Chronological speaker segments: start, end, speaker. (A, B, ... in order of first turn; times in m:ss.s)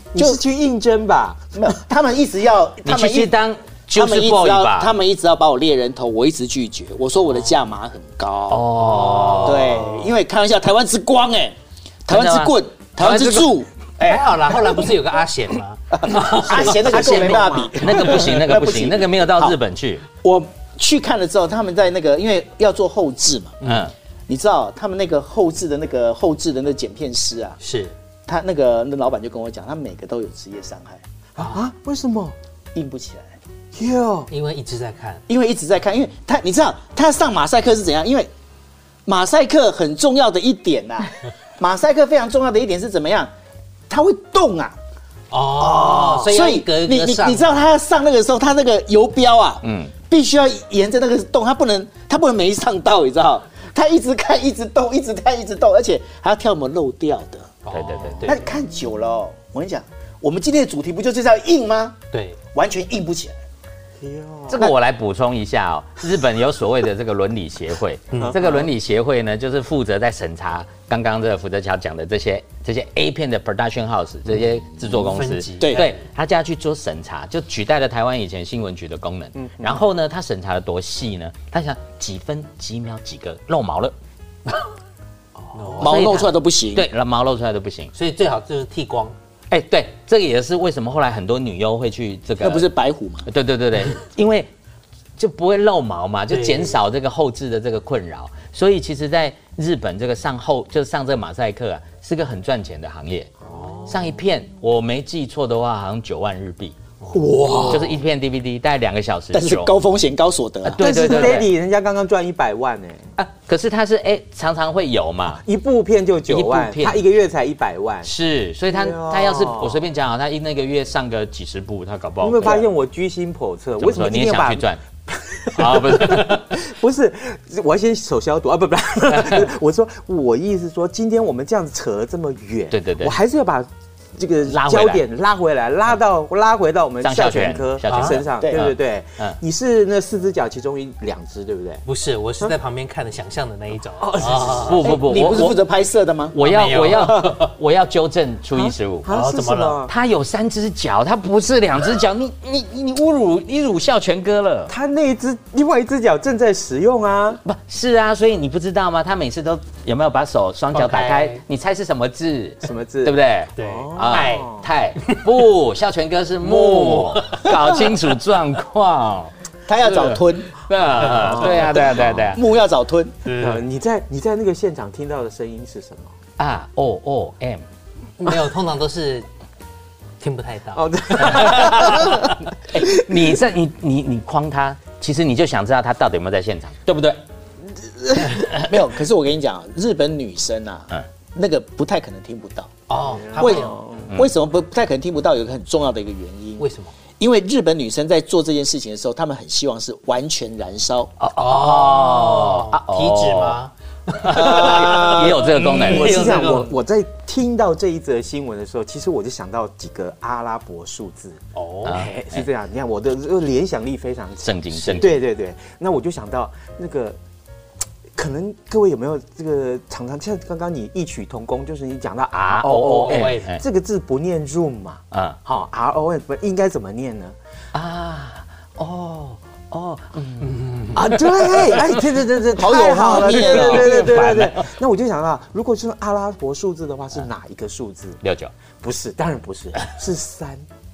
0:00.1-0:01.5 A
0:00.2-0:00.4 B
0:01.6-0:03.3 B
0:02.8-0:04.9 C
0:03.9-0:08.8 B
0:08.5-0:09.9 C
0:08.8-0:10.1 D
0:09.4-0:14.6 B
0:12.1-0:12.6 C
0:14.0-0:17.5 D
0:15.9-0:19.6 B
0:16.1-0:18.2 A
0:17.8-0:20.0 C
0:20.2-0:23.6 B
0:23.6-0:23.9 C
0:24.3-0:27.6 B
0:27.6-0:27.9 D
0:28.3-0:31.0 B
0:31.4-0:32.4 A
0:32.8-0:33.4 B
0:33.8-0:34.3 A
0:34.3-0:35.2 D
0:35.3-0:38.3 B
0:39.1-0:43.3 B
0:43.9-0:44.8 B
0:45.3-0:47.6 D
0:45.6-0:46.3 A
0:45.9-0:57.5 B
0:49.6-0:49.9 C
0:57.6-0:58.4 D
0:57.7-0:58.4 C
0:58.2-1:02.0 B
1:02.1-1:02.4 D
1:02.5-1:03.4 B
1:04.0-1:04.6 A
1:04.5-1:24.0 C
1:08.2-1:08.7 A
1:14.9-1:16.0 D
1:15.6-1:15.8 B
1:19.4-1:19.8 A
1:25.5-1:26.1 D
1:25.5-1:25.9 A
1:25.8-1:26.9 B
1:25.8-1:27.9 C
1:27.9-1:29.2 D
1:29.5-1:32.7 C
1:32.4-1:33.3 B
1:33.3-1:34.5 C
1:35.2-1:43.3 C
1:36.3-1:36.8 D
1:43.4-1:44.2 A
1:43.9-1:46.8 C
1:47.1-1:48.0 A
1:47.6-1:49.7 C
1:49.3-1:51.4 B
1:50.6-1:51.5 C
1:50.8-1:53.0 A
1:53.2-1:55.4 C
1:55.4-1:58.1 A
1:56.3-1:57.0 C
1:58.0-2:02.7 C
1:58.7-1:59.9 A
2:02.2-2:21.8 A
2:03.8-2:04.8 C
2:05.5-2:06.5 C
2:09.1-2:09.5 C
2:12.7-2:13.2 C
2:14.5-2:15.0 C
2:17.0-2:19.4 C
2:17.9-2:18.2 D
2:18.4-2:18.6 B
2:21.9-2:24.8 D
2:24.0-2:25.0 A
2:24.6-2:25.6 C
2:24.8-2:26.4 B
2:26.3-2:29.1 C
2:26.4-2:27.5 D
2:28.6-2:29.9 A
2:29.1-2:29.9 D
2:29.9-2:34.7 C
2:34.7-2:37.4 A
2:37.4-2:52.4 C
2:40.7-2:41.4 D
2:42.6-2:44.7 A
2:43.6-2:45.3 D
2:46.5-2:47.9 D
2:49.7-2:50.6 B
2:51.0-2:51.4 D
2:51.2-2:51.7 A
2:51.3-2:53.2 B
2:53.2-2:53.6 D
2:53.4-2:56.1 A
2:56.4-2:57.6 C
2:58.2-2:59.3 D
3:00.2-3:02.4 D
3:00.8-3:02.8 A
3:01.2-3:07.2 C
3:08.2-3:12.7 B
3:12.9-3:13.8 D
3:13.1-3:14.1 A
3:13.3-3:16.7 B
3:16.6-3:16.9 D
3:17.2-3:21.1 B
3:21.2-3:23.6 C
3:21.4-3:26.7 D
3:24.2-3:26.6 C
3:24.3-3:37.2 A
3:31.6-3:32.0 D
3:31.8-3:32.5 C
3:34.4-3:35.2 C
3:38.2-3:47.4 A
3:42.5-3:43.6 C
3:42.8-3:43.5 D
3:45.1-3:45.4 C
3:47.7-3:52.0 C
3:50.9-3:58.2 A
3:52.6-3:54.1 B
3:53.2-3:54.7 C
3:58.2-3:58.5 C
3:58.8-4:00.6 A